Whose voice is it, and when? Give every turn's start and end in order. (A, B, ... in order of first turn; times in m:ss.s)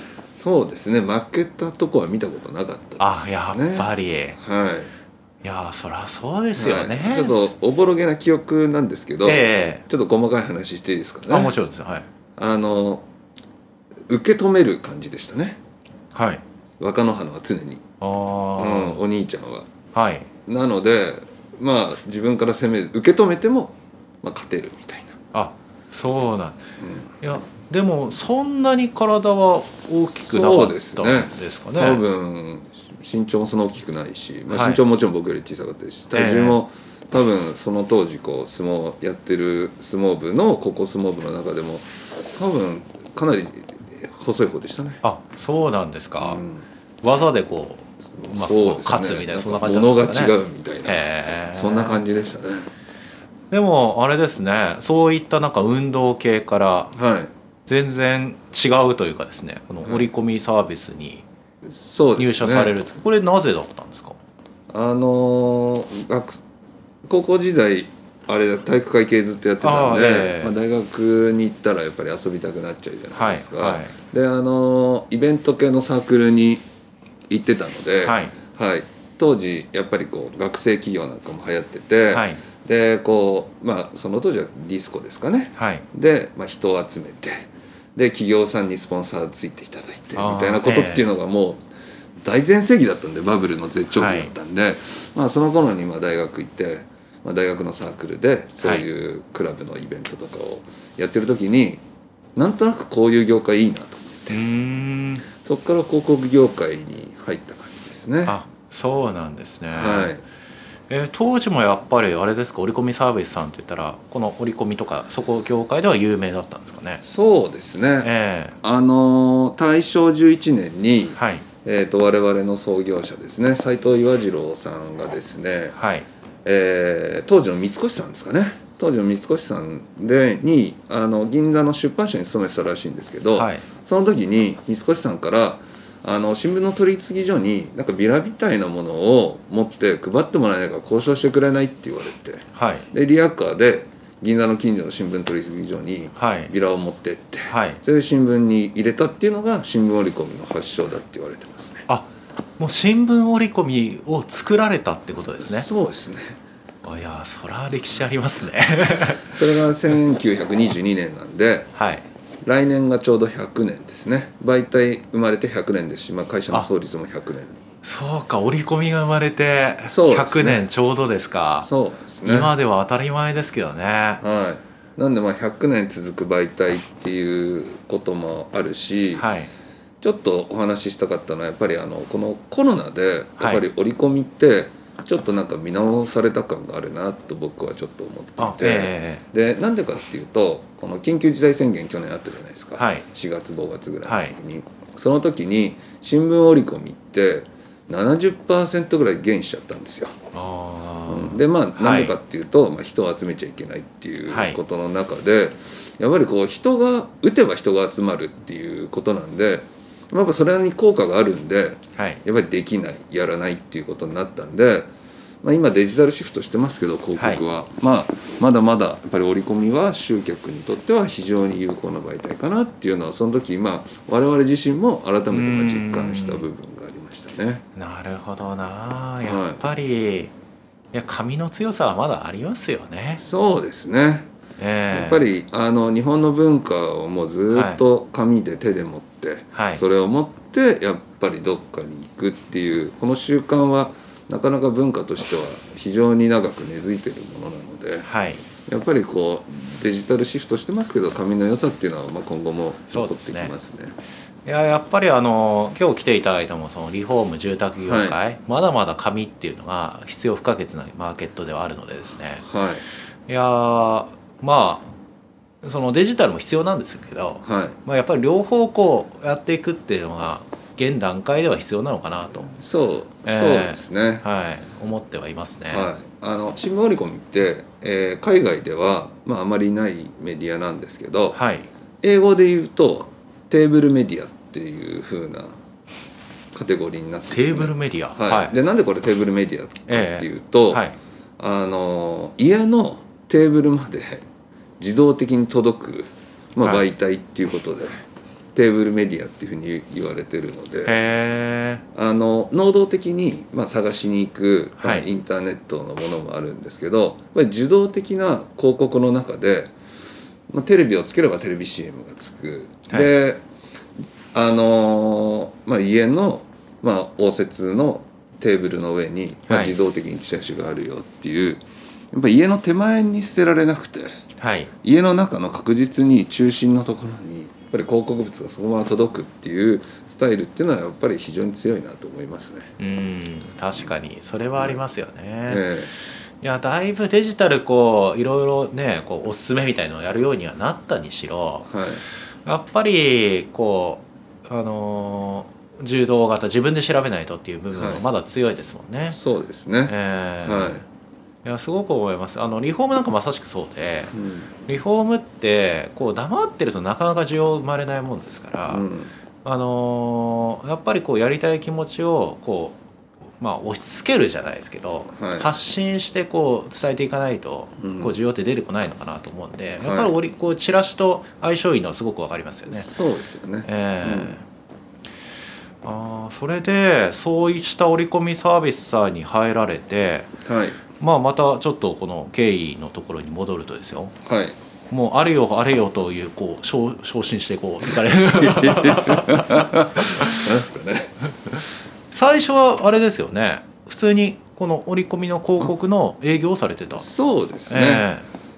0:00.4-0:04.9 A
0:03.0-0:04.4 B
0:05.4-0:07.4 B
0:06.6-0:11.6 A
0:09.2-0:09.8 B
0:11.3-0:12.1 B
0:12.4-0:13.0 A
0:14.1-0:15.6 A
0:16.1-0:16.4 B
0:16.8-0:17.8 A
0:18.0-0:19.0 B
0:18.6-0:19.7 A
0:19.9-0:20.3 B
0:20.4-0:25.2 A
0:25.3-0:26.6 B
0:26.8-0:27.1 A
0:27.2-0:32.0 B
0:30.2-0:45.0 A
0:34.5-0:34.8 B
0:36.1-0:36.6 B
0:45.0-0:46.4 B
0:46.2-0:46.6 A
0:47.0-0:52.0 B
0:48.1-0:52.7 A
0:53.5-0:56.9 B
0:56.9-0:57.3 A
0:57.7-1:01.2 B
0:59.8-1:00.1 A
1:01.6-1:02.8 A
1:02.2-1:04.2 B
1:04.7-1:06.4 A
1:07.1-1:16.6 A
1:09.6-1:10.6 B
1:13.1-1:13.9 B
1:17.3-1:31.6 A
1:18.0-1:18.3 B
1:22.1-1:22.4 B
1:25.6-1:25.8 B
1:30.2-1:31.0 B
1:32.2-1:41.8 A
1:33.9-1:34.3 B
1:42.4-1:44.4 A
1:44.3-1:45.2 B
1:45.4-1:48.4 A
1:48.2-1:50.1 B
1:49.7-1:50.2 A
1:50.9-1:57.0 B
1:57.0-1:58.1 A
1:58.0-1:58.6 B
1:58.6-2:05.8 A
2:01.1-2:01.4 B
2:05.7-2:06.1 B
2:06.4-2:31.9 A
2:13.4-2:13.6 B
2:22.5-2:22.9 B
2:26.1-2:26.5 B
2:27.5-2:27.8 B
2:31.9-2:35.7 B
2:35.2-2:36.4 A
2:36.8-2:39.4 B
2:39.4-2:41.7 A
2:41.7-2:42.0 B
2:42.4-2:47.6 A
2:47.8-2:51.7 B
2:49.9-2:50.7 A
2:51.6-2:52.6 A
2:52.2-2:54.2 B
2:54.2-2:59.2 A
2:59.1-2:59.5 B
3:00.0-3:20.1 A
3:03.4-3:03.6 B
3:08.4-3:09.2 B
3:12.8-3:13.0 B
3:14.0-3:14.3 B
3:20.3-3:22.2 B
3:21.1-3:34.9 A
3:24.3-3:24.6 B
3:32.0-3:32.2 B
3:35.4-3:47.6 A
3:37.2-3:37.4 B
3:45.3-3:46.4 B
3:47.8-3:50.3 B
3:49.2-3:49.6 A
3:50.9-3:53.2 B
3:53.2-3:54.3 A
3:54.6-3:55.3 B
3:54.9-4:08.1 A
3:57.5-3:57.8 B
3:59.5-3:59.8 B
4:08.0-4:08.4 B
4:08.7-4:14.0 A
4:12.9-4:13.5 B
4:14.4-4:22.4 B
4:17.8-4:18.2 A
4:22.4-4:22.8 A
4:23.3-4:24.9 B
4:25.6-4:32.5 B
4:27.4-4:27.8 A
4:32.5-4:34.2 A
4:33.2-4:35.9 B
4:35.7-4:41.4 A
4:41.3-4:41.7 B
4:42.0-4:45.5 A
4:46.5-4:50.8 A
4:47.3-4:48.5 B
4:49.9-4:51.0 B
4:51.4-4:54.2 A
4:54.8-4:58.0 A
4:58.6-5:01.0 A
5:00.8-5:01.8 B
5:01.9-5:09.7 A
5:04.8-5:05.1 B
5:10.5-5:13.4 A
5:14.3-5:21.6 A
5:19.5-5:19.8 B
5:22.1-5:24.1 A
5:24.4-5:24.7 B
5:24.8-5:32.7 A
5:32.8-5:35.6 B
5:35.4-5:35.9 A
5:36.4-5:41.7 B
5:41.7-5:42.0 A
5:42.4-5:49.2 B
5:47.7-5:48.0 A
5:49.1-5:50.8 A
5:49.8-5:50.8 B
5:51.4-5:54.1 B
5:54.1-5:54.5 A
5:54.6-5:58.8 B
5:58.7-5:59.1 A
5:59.4-6:02.8 B
6:03.4-6:12.9 B
6:05.2-6:05.5 A
6:07.8-6:08.2 A
6:09.8-6:10.2 A
6:12.7-6:14.4 A
6:13.7-6:14.4 B
6:15.8-6:20.3 B
6:20.4-6:20.8 A
6:21.0-6:24.1 B
6:24.3-6:24.6 A
6:24.9-6:30.5 B
6:28.3-6:31.1 A
6:32.1-6:37.1 B
6:36.9-6:38.1 A
6:37.7-6:38.3 B